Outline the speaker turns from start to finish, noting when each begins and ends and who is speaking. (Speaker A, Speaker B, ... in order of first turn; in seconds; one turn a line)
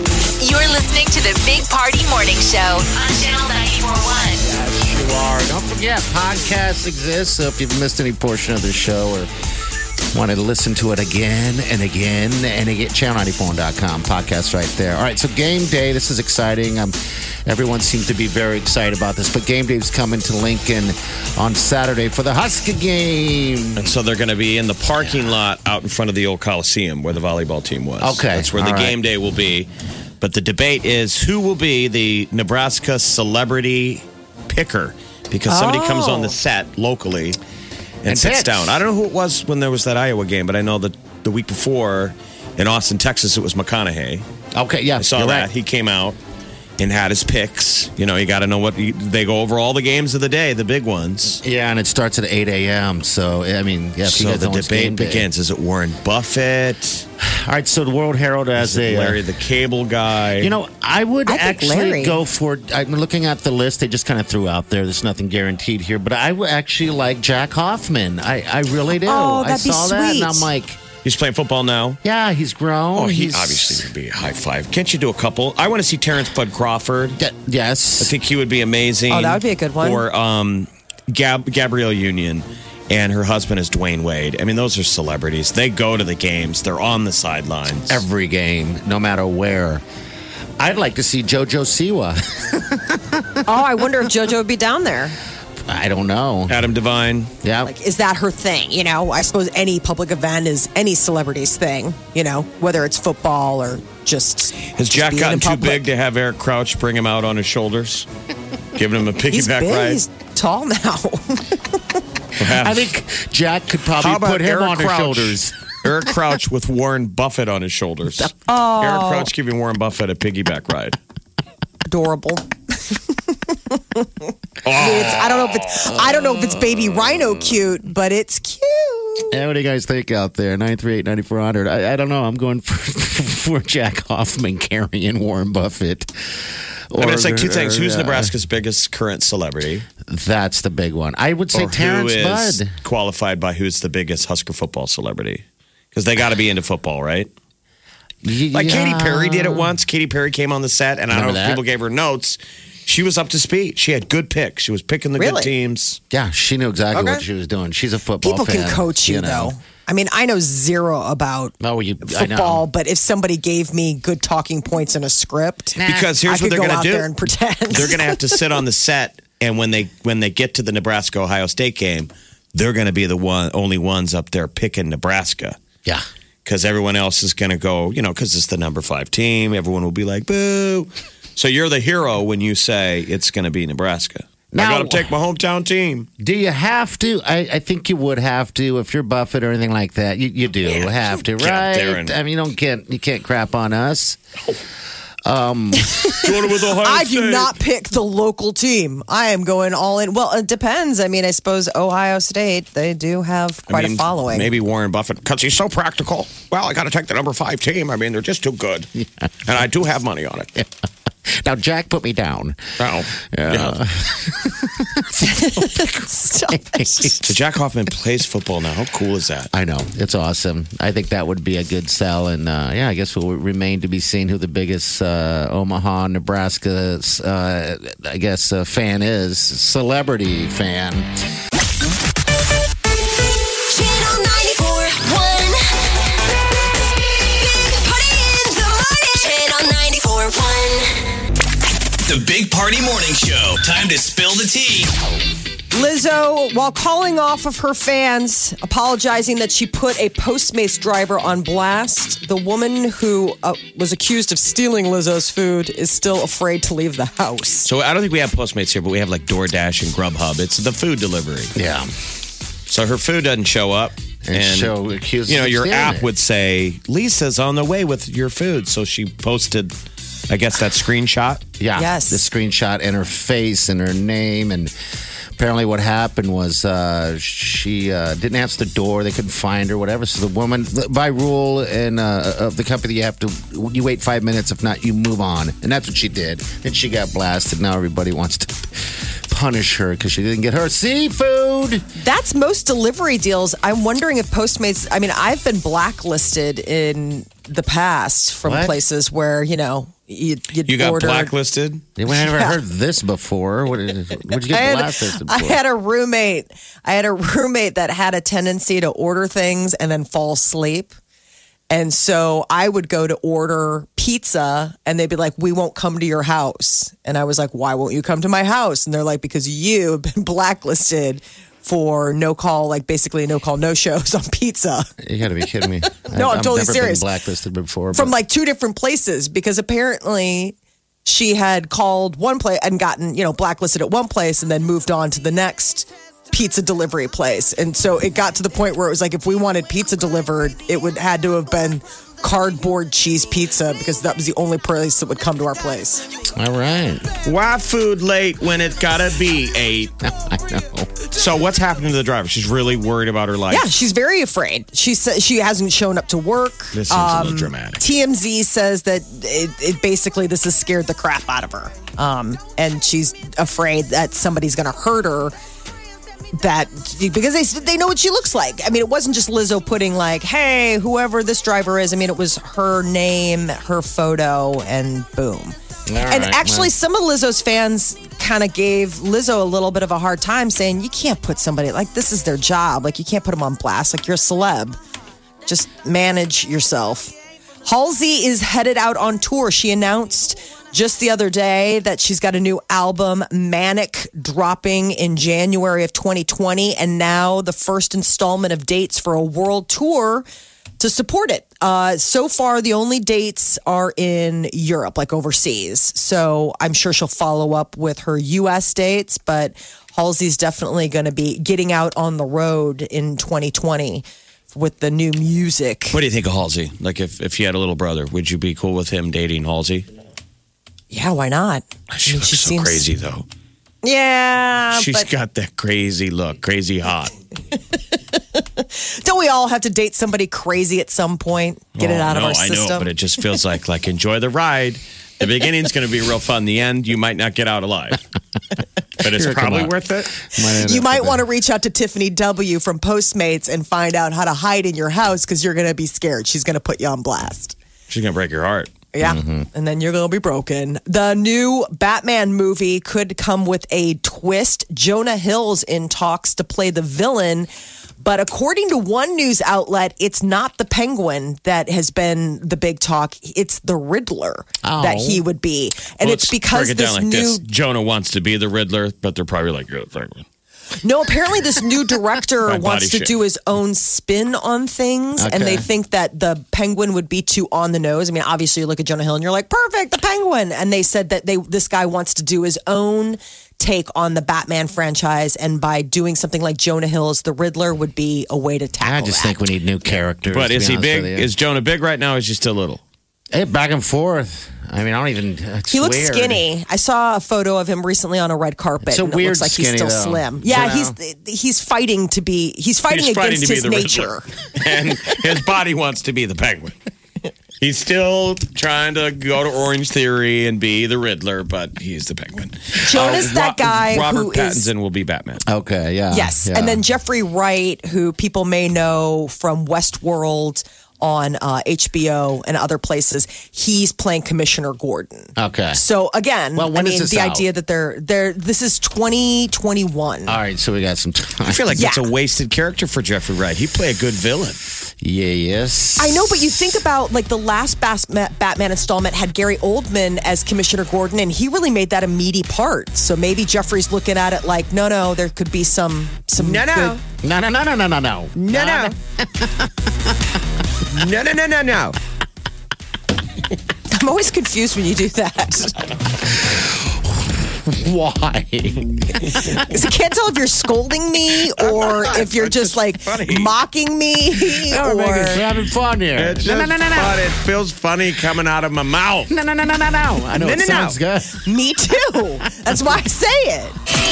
Speaker A: 0.4-4.4
Speaker B: 4.4-9.3
Speaker B: 10.1-23.9
Speaker C: 23.8-37.4
Speaker B: 25.0-25.4
Speaker B: 28.0-29.0
Speaker D: 35.5-36.4
Speaker C: 38.0-44.2
Speaker B: 38.1-38.8
Speaker B: 44.5-45.5
Speaker C: 45.0-46.2
Speaker C: 46.8-51.4
Speaker B: 51.4-55.3
Speaker C: 54.0-57.0
Speaker B: 57.2-59.2
Speaker C: 58.6-60.5
Speaker B: 60.4-70.8
Speaker D: 61.3-62.2
Speaker D: 69.0-70.5
Speaker C: 71.0-72.0
Speaker B: 72.0-73.8
Speaker C: 72.9-77.2
Speaker B: 77.2-78.1
Speaker C: 78.0-88.0
Speaker D: 79.1-80.0
Speaker B: 87.9-89.8
Speaker B: 90.6-93.4
Speaker D: 93.5-95.2
Speaker B: 95.7-96.6
Speaker C: 96.5-97.3
Speaker B: 97.4-97.7
Speaker D: 97.6-105.8
Speaker C: 104.8-108.1
Speaker C: 108.8-110.0
Speaker D: 109.3-112.0
Speaker C: 112.4-112.9
Speaker B: 112.5-115.5
Speaker C: 114.0-121.0
Speaker D: 118.3-119.3
Speaker D: 121.9-129.4
Speaker C: 124.6-125.5
Speaker B: 129.3-136.1
Speaker B: 136.9-138.3
Speaker C: 136.9-139.8
Speaker B: 140.1-142.7
Speaker C: 141.5-147.3
Speaker B: 148.2-149.8
Speaker C: 148.5-156.0
Speaker B: 151.1-151.6
Speaker D: 155.2-155.5
Speaker B: 156.1-159.5
Speaker D: 156.9-157.2
Speaker D: 158.2-168.4
Speaker B: 161.6-162.7
Speaker B: 165.8-166.2
Speaker C: 165.8-167.1
Speaker C: 167.7-175.6
Speaker C: 176.4-186.1
Speaker B: 184.5-185.2
Speaker B: 186.2-194.2
Speaker C: 190.7-192.2
Speaker B: 195.2-196.1
Speaker D: 195.8-204.5
Speaker C: 196.2-197.6
Speaker C: 203.7-208.9
Speaker C: 209.4-210.6
Speaker B: 211.3-212.6
Speaker C: 212.8-213.8
Speaker B: 213.2-217.3
Speaker D: 215.2-217.3
Speaker C: 217.3-219.5
Speaker B: 219.5-231.1
Speaker D: 233.7-235.9
Speaker D: 237.4-240.9
Speaker E: 242.1-244.9
Speaker D: 245.7-257.7
Speaker C: 257.6-261.5
Speaker B: 261.6-261.9
Speaker C: 262.7-269.7
Speaker B: 264.2-266.1
Speaker C: 270.3-271.4
Speaker B: 271.6-274.7
Speaker D: 271.8-272.3
Speaker B: 275.4-291.9
Speaker D: 292.0-301.3
Speaker B: 298.4-298.8
Speaker C: 300.7-301.8
Speaker B: 302.0-305.6
Speaker D: 302.1-302.6
Speaker D: 304.4-310.9
Speaker D: 311.7-324.9
Speaker B: 325.0-328.1
Speaker D: 325.9-327.1
Speaker D: 327.9-346.0
Speaker B: 346.4-347.1
Speaker C: 347.2-349.9
Speaker B: 350.0-350.9
Speaker C: 351.1-353.7
Speaker D: 353.5-365.3
Speaker C: 356.7-357.8
Speaker D: 366.3-375.6
Speaker B: 375.9-376.7
Speaker D: 376.1-384.8
Speaker D: 385.5-400.3
Speaker D: 400.8-416.0
Speaker C: 415.9-419.9
Speaker D: 420.9-422.9
Speaker C: 421.9-423.3
Speaker D: 423.8-425.1
Speaker C: 424.7-427.1
Speaker D: 428.1-432.9
Speaker C: 431.8-438.0
Speaker C: 439.0-440.1
Speaker B: 439.0-441.3
Speaker D: 440.4-447.6
Speaker C: 447.9-448.7
Speaker D: 448.9-467.4
Speaker B: 449.0-449.5
Speaker B: 464.6-465.2
Speaker C: 466.0-470.2
Speaker D: 470.8-489.4
Speaker C: 472.4-473.2
Speaker B: 475.2-475.7
Speaker B: 488.8-491.3
Speaker C: 490.3-492.8
Speaker B: 493.3-496.4
Speaker D: 495.7-504.3
Speaker B: 498.8-501.0
Speaker C: 502.9-506.8
Speaker C: 507.6-515.4
Speaker D: 512.8-514.7
Speaker B: 515.5-516.8
Speaker D: 516.1-530.4
Speaker B: 525.4-525.8
Speaker B: 526.6-527.5
Speaker B: 530.3-531.7
Speaker C: 531.4-534.6
Speaker D: 531.7-532.1
Speaker B: 535.0-536.7
Speaker D: 536.0-547.0
Speaker B: 546.6-549.7
Speaker D: 548.4-549.0
Speaker D: 551.0-551.8
Speaker C: 551.2-551.9
Speaker D: 553.9-555.8
Speaker B: 556.3-559.6
Speaker D: 559.3-565.5
Speaker C: 561.6-563.5
Speaker B: 564.6-567.2
Speaker C: 566.1-569.3
Speaker B: 569.3-571.4
Speaker D: 570.4-573.8
Speaker B: 572.1-572.8